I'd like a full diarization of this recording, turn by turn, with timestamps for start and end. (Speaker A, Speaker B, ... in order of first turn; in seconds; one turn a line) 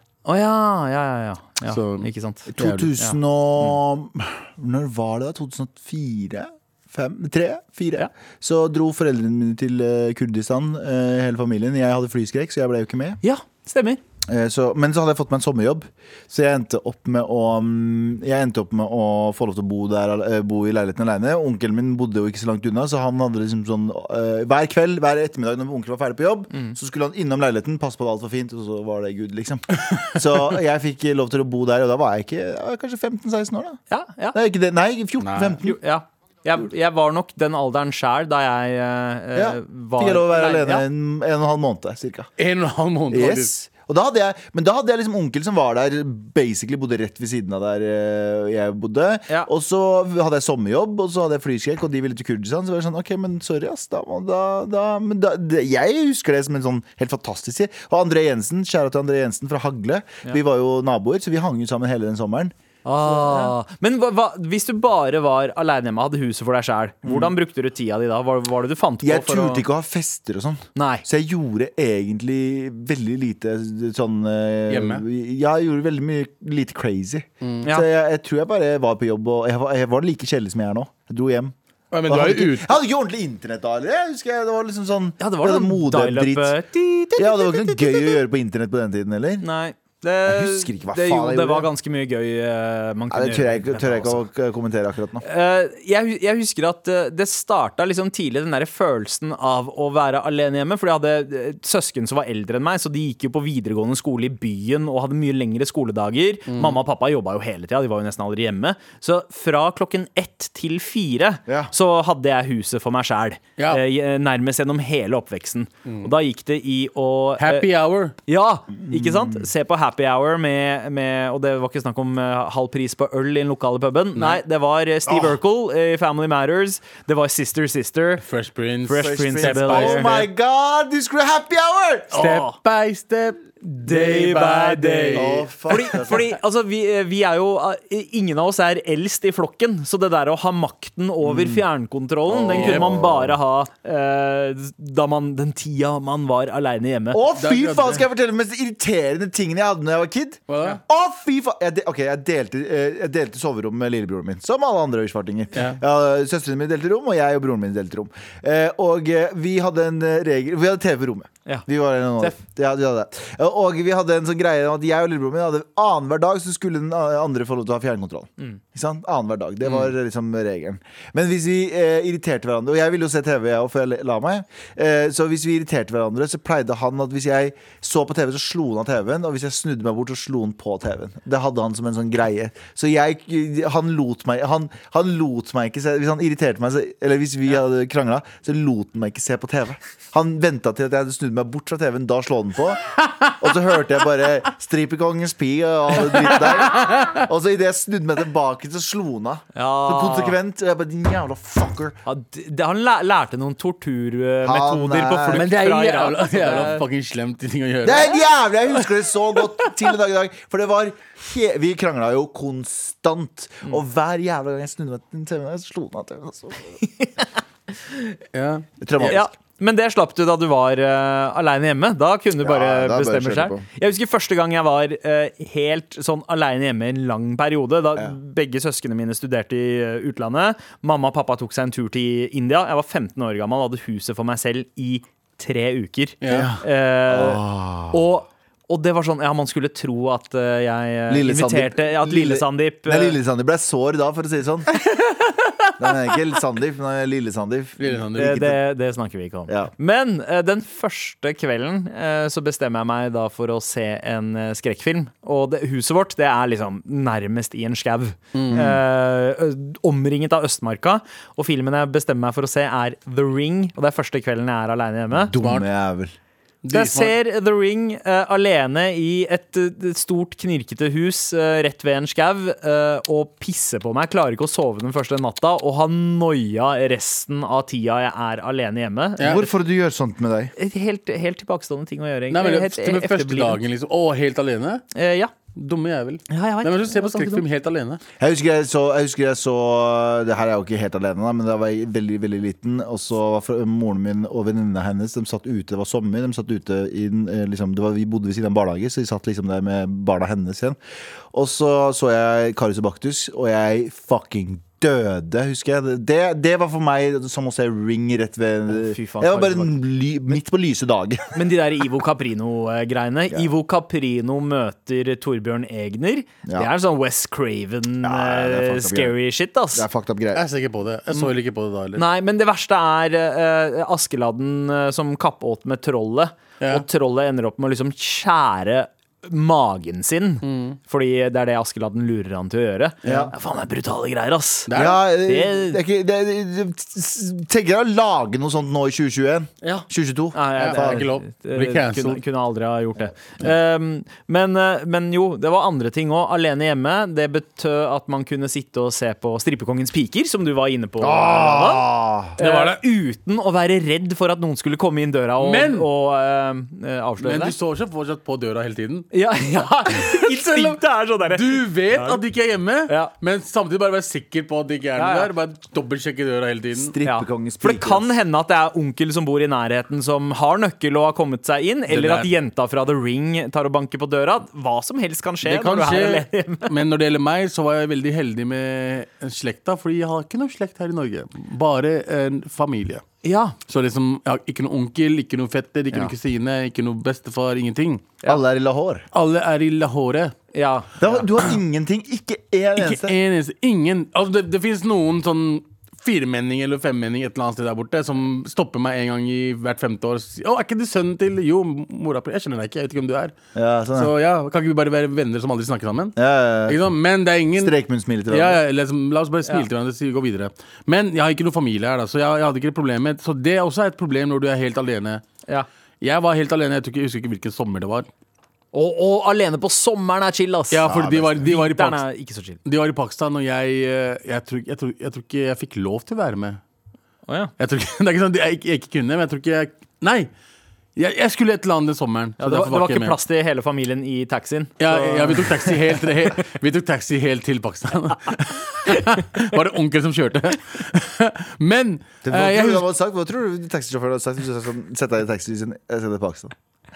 Speaker A: 0.3-2.5
Speaker B: 1.7-2.9
Speaker C: 2.5-13.2
Speaker A: 13.2-14.0
Speaker C: 14.3-33.8
Speaker A: 33.9-34.4
Speaker C: 34.3-35.8
Speaker B: 35.2-35.6
Speaker A: 35.6-40.9
Speaker C: 39.4-42.3
Speaker B: 42.4-43.5
Speaker C: 43.1-62.5
Speaker A: 62.9-69.7
Speaker C: 63.1-63.5
Speaker C: 67.0-67.3
Speaker C: 69.0-81.5
Speaker A: 70.8-71.0
Speaker B: 74.7-75.0
Speaker B: 81.9-82.7
Speaker C: 82.0-86.6
Speaker A: 85.2-88.2
Speaker C: 87.2-89.5
Speaker A: 89.4-94.2
Speaker C: 90.3-91.7
Speaker C: 93.1-95.2
Speaker A: 95.2-117.7
Speaker B: 106.5-106.8
Speaker C: 111.5-111.7
Speaker B: 115.8-116.1
Speaker B: 117.4-118.2
Speaker A: 118.3-128.2
Speaker C: 118.7-119.5
Speaker B: 124.2-124.4
Speaker C: 125.1-125.4
Speaker B: 128.2-130.2
Speaker A: 128.9-130.2
Speaker C: 129.0-132.2
Speaker A: 132.1-132.6
Speaker B: 132.1-136.0
Speaker A: 133.6-147.2
Speaker C: 135.1-136.3
Speaker C: 141.2-141.7
Speaker C: 142.3-143.4
Speaker B: 142.4-142.9
Speaker C: 147.1-202.0
Speaker B: 147.4-148.0
Speaker B: 150.5-150.8
Speaker B: 155.5-155.8
Speaker B: 196.7-197.2
Speaker A: 199.6-200.4
Speaker A: 202.1-206.8
Speaker C: 204.4-205.5
Speaker B: 205.3-208.2
Speaker C: 207.8-216.8
Speaker B: 218.3-219.2
Speaker C: 218.8-219.3
Speaker A: 219.0-243.2
Speaker C: 222.4-223.7
Speaker B: 236.2-236.5
Speaker C: 236.3-238.0
Speaker C: 241.1-244.8
Speaker A: 244.9-245.3
Speaker C: 245.8-248.6
Speaker B: 247.8-248.5
Speaker A: 248.2-265.3
Speaker B: 258.3-258.7
Speaker C: 258.5-258.8
Speaker C: 265.1-266.1
Speaker B: 265.4-265.7
Speaker B: 266.6-267.1
Speaker A: 266.7-279.5
Speaker C: 279.2-280.5
Speaker A: 280.6-283.6
Speaker B: 282.3-284.8
Speaker A: 284.9-285.3
Speaker B: 285.5-288.0
Speaker A: 286.3-287.4
Speaker C: 288.2-300.8
Speaker C: 301.3-311.4
Speaker A: 308.7-309.8
Speaker A: 311.4-319.9
Speaker C: 318.0-319.2
Speaker C: 319.7-320.4
Speaker B: 320.3-322.0
Speaker A: 321.9-335.8
Speaker B: 330.4-330.8
Speaker B: 333.0-333.3
Speaker C: 333.1-333.3
Speaker B: 334.7-335.0
Speaker C: 334.7-341.1
Speaker A: 340.3-357.6
Speaker B: 340.6-342.2
Speaker C: 351.0-352.4
Speaker B: 352.4-352.8
Speaker B: 355.4-355.9
Speaker B: 357.2-359.1
Speaker A: 359.1-362.2
Speaker B: 360.0-360.8
Speaker B: 361.3-366.9
Speaker A: 365.0-365.3
Speaker C: 366.8-368.1
Speaker A: 367.0-376.7
Speaker B: 371.9-372.3
Speaker B: 375.4-383.0
Speaker A: 383.2-383.6
Speaker B: 383.7-388.1
Speaker C: 388.3-389.1
Speaker B: 389.1-390.3
Speaker A: 390.5-390.9
Speaker C: 391.0-393.2
Speaker B: 392.8-403.4
Speaker C: 403.6-404.1
Speaker B: 403.9-407.8
Speaker C: 406.2-406.8
Speaker C: 407.6-408.6
Speaker B: 408.3-415.2
Speaker B: 416.0-418.1
Speaker A: 418.7-422.6
Speaker B: 420.7-422.0
Speaker C: 420.8-421.5
Speaker B: 422.6-426.6
Speaker B: 427.6-430.3
Speaker B: 431.0-433.2
Speaker A: 432.4-436.0
Speaker B: 434.8-442.9
Speaker C: 442.2-446.5